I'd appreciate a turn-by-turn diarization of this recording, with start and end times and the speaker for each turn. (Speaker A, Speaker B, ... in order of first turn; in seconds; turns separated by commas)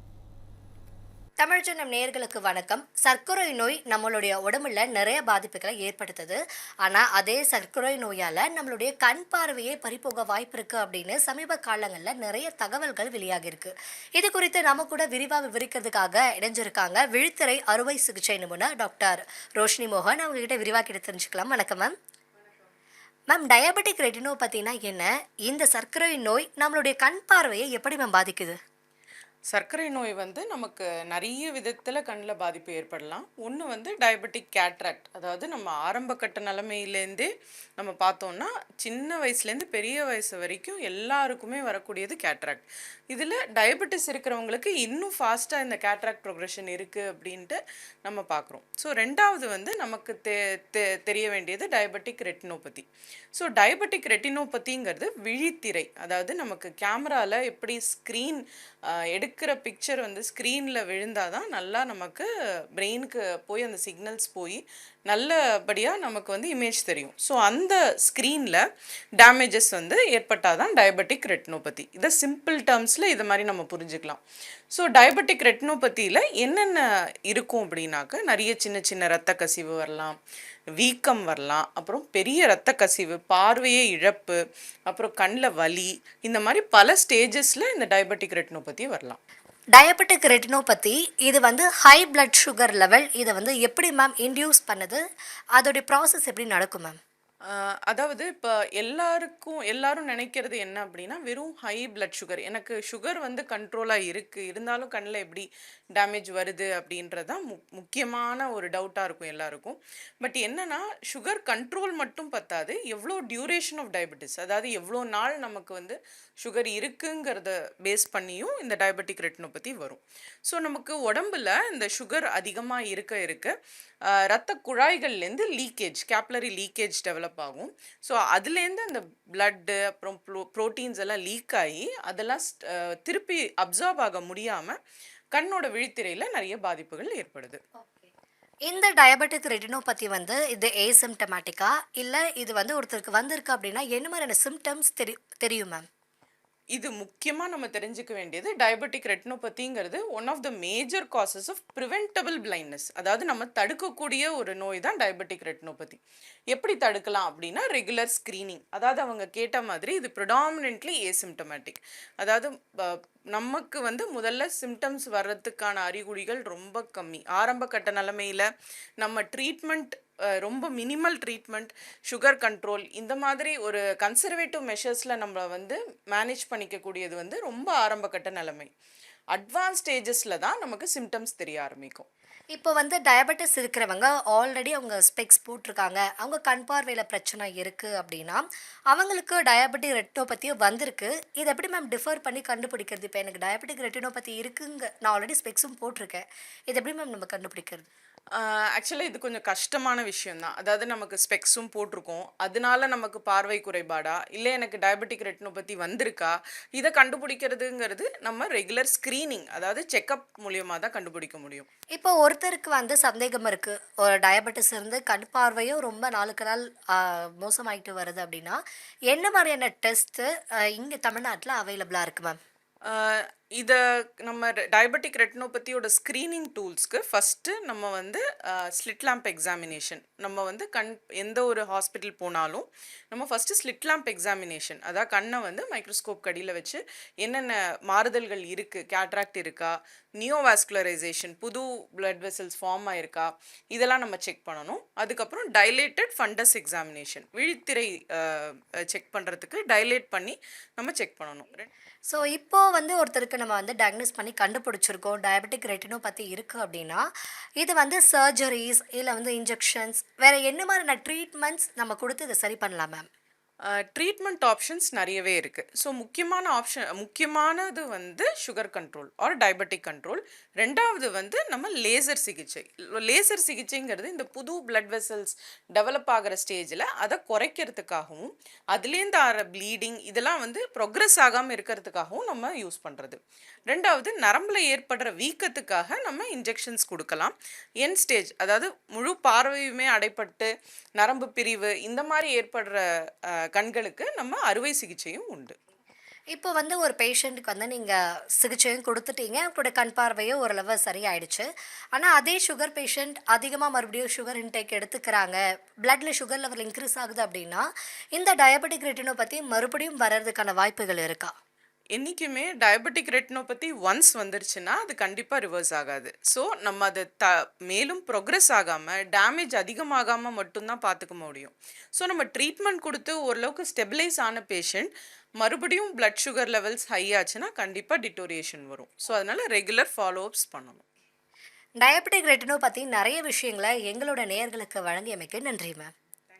Speaker A: 1.4-21.9, Speaker A: 23.3-28.6, Speaker B: 29.5-68.6, Speaker B: 69.2-74.2, Speaker B: 74.7-80.2, Speaker B: 80.8-89.2, Speaker A: 89.8-95.0, Speaker A: 95.5-97.0, Speaker B: 97.5-123.5, Speaker B: 124.1-134.8, Speaker B: 135.3-137.6, Speaker A: 138.7-145.8, Speaker B: 146.7-156.0, Speaker B: 156.5-168.5, Speaker B: 169.0-178.7, Speaker B: 179.3-182.1, Speaker A: 182.5-197.9, Speaker B: 198.3-211.7, Speaker A: 211.9-222.4, Speaker B: 222.9-251.7, Speaker A: 252.1-257.1, Speaker A: 257.6-263.1, Speaker B: 263.6-292.8, Speaker B: 293.5-295.6, Speaker A: 296.3-311.3, Speaker B: 311.9-330.8, Speaker A: 331.8-335.9